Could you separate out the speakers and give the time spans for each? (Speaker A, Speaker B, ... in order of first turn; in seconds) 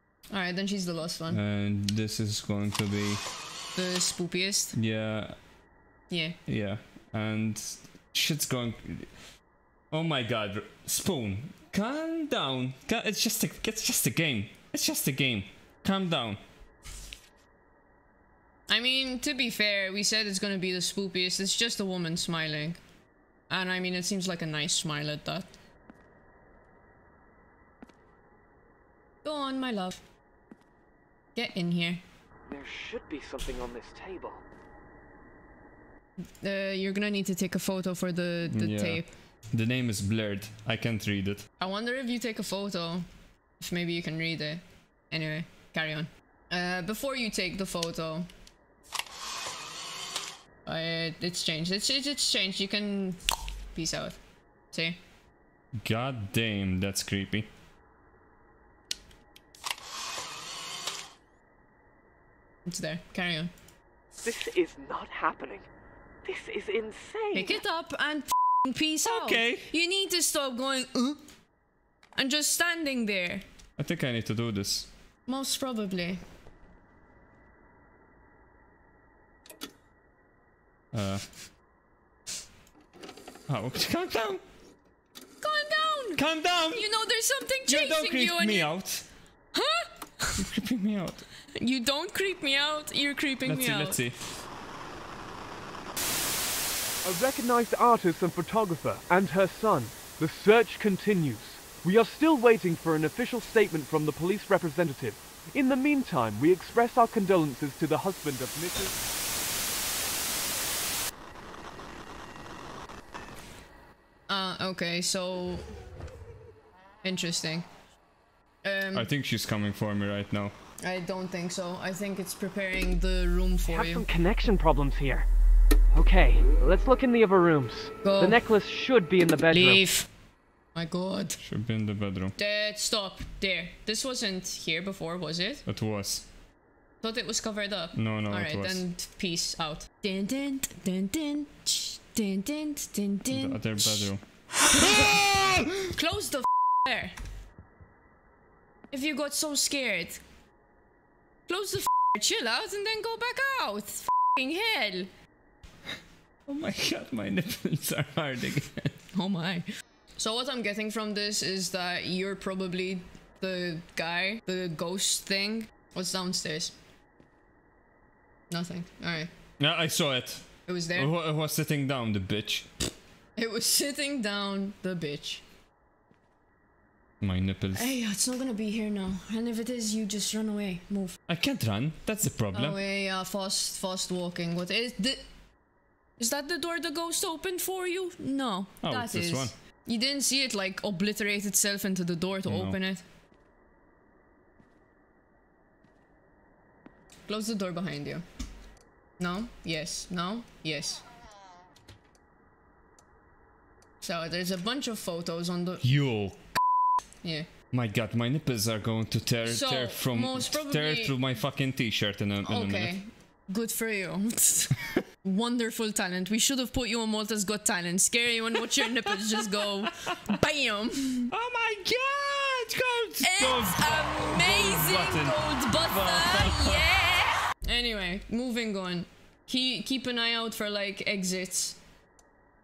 Speaker A: 0.3-1.4, 3.8-4.8, 6.1-6.4, 18.7-22.8, 23.5-25.5, 29.2-30.0, 31.4-32.0, 36.4-39.1, 41.6-43.1, 43.6-48.3, 50.6-53.2, 53.7-54.2, 54.7-55.0, 62.6-63.5, 67.3-71.2, 72.2-73.4, 75.3-76.2, 85.4-88.7, 89.5-90.4, 91.6-94.0, 114.3-115.7, 117.0-117.7, 118.6-119.1, 120.8-124.1, 128.0-128.4, 129.5-130.1, 130.8-131.4, 132.4-135.7, 137.0-144.1, 144.7-147.2, 148.9-150.2, 151.5-155.1, 159.1-159.7, 160.2-166.8, 168.5-169.3, 170.7-171.1, 173.4-175.4, 177.7-181.2, 182.5-185.2, 186.2-193.0, 197.3-198.2, 199.2-201.0, 204.0-205.8, 207.2-207.5, 209.5-211.2, 212.4-221.3, 223.2-231.8
Speaker B: 1.3-3.2, 4.7-5.4, 6.5-9.1, 9.9-16.4, 38.5-41.5, 55.8-57.5, 69.0-69.7, 73.8-74.9, 80.9-81.3, 83.5-84.4, 86.2-86.9, 87.7-89.1, 90.4-91.3, 93.5-94.2, 118.9-120.5, 131.4-132.3, 135.7-136.3, 137.9-138.8, 143.3-144.2, 144.8-145.7, 156.5-159.0, 169.6-172.7, 177.2-177.9, 181.3-182.8, 188.8-189.5, 192.5-192.8, 205.8-206.5, 207.7-213.0, 218.6-220.1, 221.3-227.0
Speaker C: 32.5-34.4, 64.2-65.7, 66.2-67.6, 97.0-109.0, 123.7-125.3, 125.9-129.8